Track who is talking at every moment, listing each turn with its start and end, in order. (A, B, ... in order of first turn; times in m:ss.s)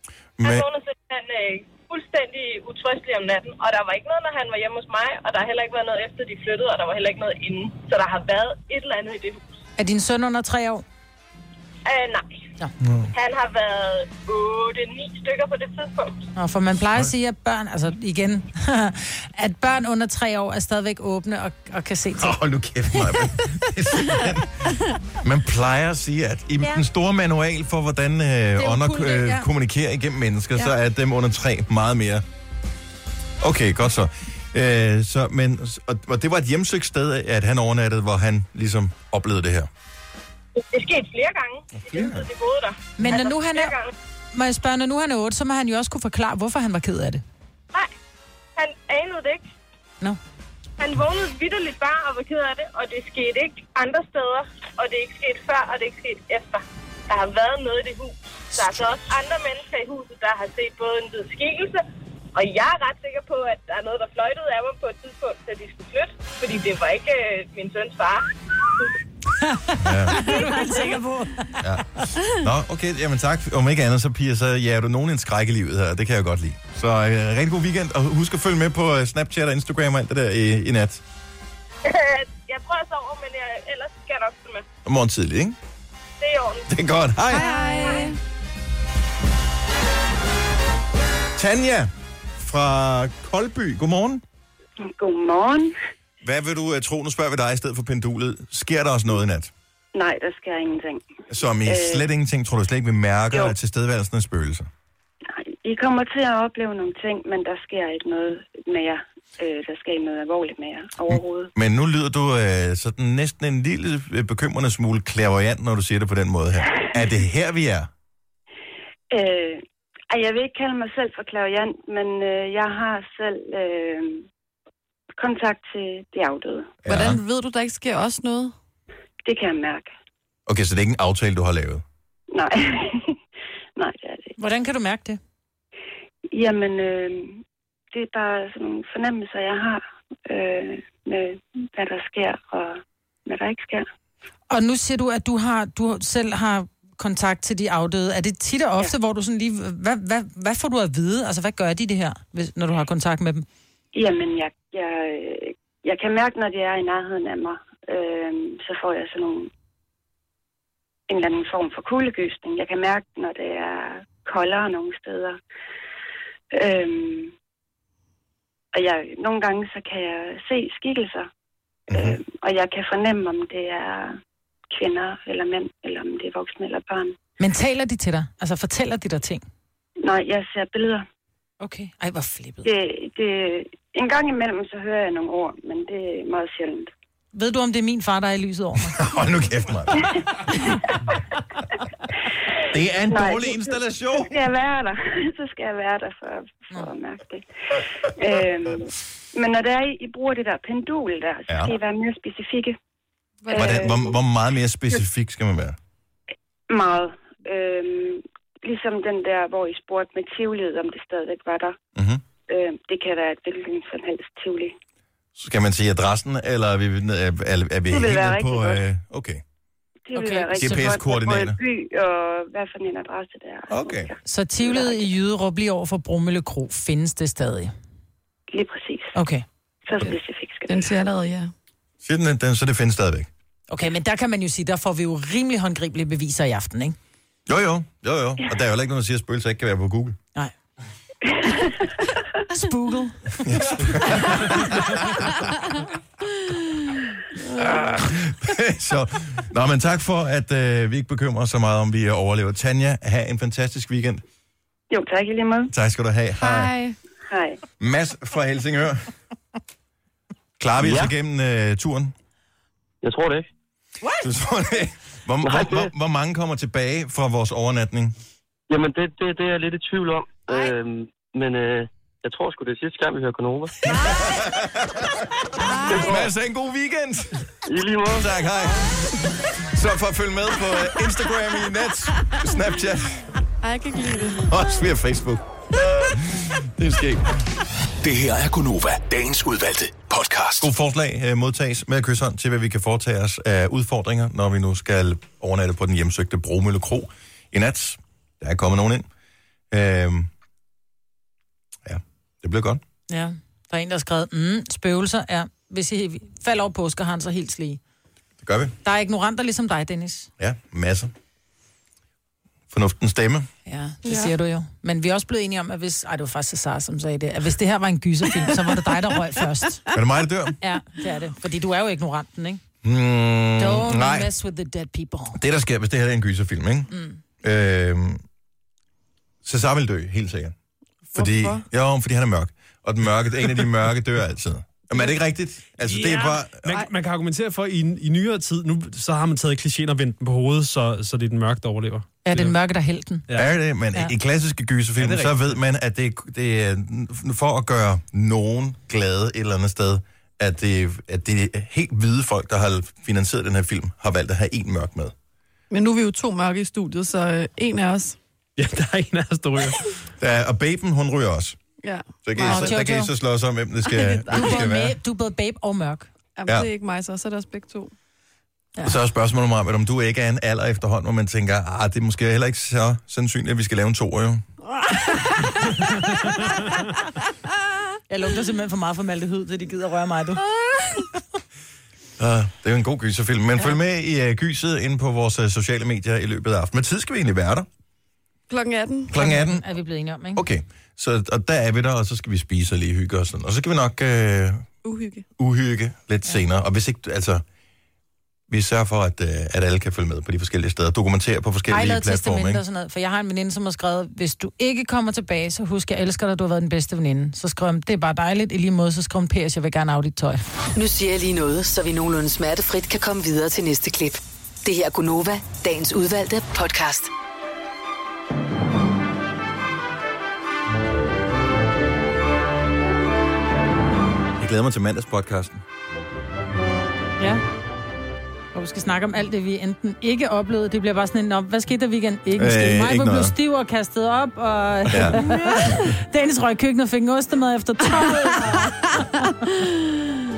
0:00.4-0:00.7 A
0:00.4-0:09.5 B
0:09.8-0:10.8 C
0:11.8-0:12.4 B
0:12.8-0:13.1 A
0:13.1-0:16.2 B
0:16.4-0:22.3 C
0:22.2-0:32.2 A
0:22.9-0:23.3 C
0:28.6-0:29.5 C
0:33.4-0:39.7 A
0:40.6-0:43.9 B
0:41.7-0:42.3 A
0:43.0-0:43.8 C
0:44.3-0:47.2 C
0:48.6-0:49.5 B
0:50.8-1:01.8 B
1:02.3-1:08.3 B
1:09.4-1:11.6 C
1:09.8-1:10.3 A
1:10.2-1:10.7 B
1:11.6-1:21.0 A
1:21.8-1:24.6 B
1:24.8-1:25.6 A
1:26.2-1:26.7 B
1:26.7-1:27.5 A
1:27.3-1:28.2 D
1:27.6-1:28.1 B
1:31.3-1:34.2 A
1:34.8-1:35.7 E
1:36.2-1:39.5 A
1:39.9-1:41.0 E
1:41.3-1:44.7 A
1:41.6-1:42.1 E
1:45.3-1:51.5 E
1:51.1-1:57.9 A
1:59.1-2:04.2 E
2:05.2-2:06.8 E
2:06.8-2:07.2 A
2:06.9-2:08.5 D
2:09.2-2:09.9 E
2:10.5-2:11.8 A
2:12.3-2:13.2 E
2:13.8-2:14.4 E
2:14.4-2:15.2 C
2:16.3-2:17.4 E
2:17.9-2:23.8 E
2:24.5-2:33.4 C
2:33.9-2:39.5 E
2:41.1-2:45.4 E
2:46.5-2:47.3 E
2:48.7-2:51.3 E
2:51.9-2:54.2 E
2:51.9-2:52.2 A
2:54.7-2:57.2 E
2:57.4-2:59.4 C
3:00.0-3:01.0 E
3:01.6-3:02.7 C
3:02.6-3:06.9 E
3:07.3-3:09.0 C
3:08.8-3:10.1 A
3:12.7-3:14.3 A
3:13.0-3:22.8 E
3:21.5-3:21.7 A
3:23.4-3:23.8 D
3:23.5-3:24.1 E
3:23.5-3:25.8 A
3:26.7-3:31.8 E
3:32.0-3:32.2 A
3:32.5-3:34.7 E
3:35.4-3:39.4 A
3:37.9-3:38.8 E
3:40.1-3:45.1 E
3:40.1-3:40.8 C
3:40.5-3:41.6 A
3:43.7-3:44.1 A
3:44.2-3:47.7 C
3:48.5-3:49.2 E
3:49.1-3:49.4 C
3:49.8-3:50.9 E
3:50.7-3:51.5 D
3:52.0-3:53.3 A
3:53.7-3:57.0 C
3:57.5-4:00.2 A
4:01.4-4:01.7 E
4:02.5-4:03.4 C
4:03.4-4:05.4 A
4:07.6-4:14.2 A
4:14.9-4:15.7 E
4:15.7-4:16.7 A
4:16.4-4:16.9 D
4:17.3-4:17.6 E
4:17.8-4:19.1 A
4:20.6-4:22.1 A
4:20.8-4:21.1 F
4:23.0-4:23.5 F
4:24.2-4:28.2 A
4:25.4-4:25.9 F
4:28.7-4:33.7 F
4:33.9-4:35.2 A
4:35.6-4:36.3 D
4:35.9-4:37.5 A
4:35.9-4:36.2 F
4:37.6-4:38.3 F
4:38.1-4:43.3 A
4:43.6-4:44.5 D
4:44.4-4:47.3 A
4:48.0-4:50.7 G
4:50.6-4:59.1 A
4:59.7-5:00.3 A
5:01.8-5:02.8 A
5:03.1-5:07.8 C
5:08.4-5:08.7 A
5:08.8-5:10.3 C
5:10.4-5:11.1 A
5:12.7-5:13.5 A
5:13.6-5:19.8 C
5:14.0-5:14.3 D
5:19.9-5:20.6 A
5:20.6-5:22.6 C
5:22.8-5:24.3 A
5:23.6-5:25.4 C
5:25.3-5:26.9 A
5:26.9-5:27.2 C
5:27.4-5:28.2 A
5:29.4-5:30.5 A
5:31.1-5:31.6 D
5:31.1-5:36.8 A
5:35.8-5:42.5 H
5:42.2-5:43.2 C
5:43.4-5:55.1 A
5:45.0-5:45.4 H
5:55.7-5:58.2 D
5:58.6-5:59.8 H
6:00.2-6:01.6 A
6:01.8-6:02.8 D
6:02.2-6:05.0 A
6:02.4-6:03.1 C
6:03.9-6:04.7 D
6:04.3-6:06.1 C
6:06.4-6:07.9 D
6:08.8-6:14.4 A
6:14.8-6:15.5 D
6:18.1-6:20.4 C
6:20.6-6:20.9 D
6:22.2-6:27.7 A
6:28.5-6:29.1 D
6:29.1-6:29.6 A
6:29.1-6:30.4 C
6:30.4-6:34.7 A
6:34.8-6:35.2 D
6:35.4-6:37.4 A
6:38.5-6:42.6 A
6:41.7-6:50.4 C
6:50.8-6:57.1 I
7:04.4-7:05.6 A
7:08.5-7:18.7 C
7:12.4-7:13.3 A
7:14.9-7:15.7 A
7:18.7-7:19.7 D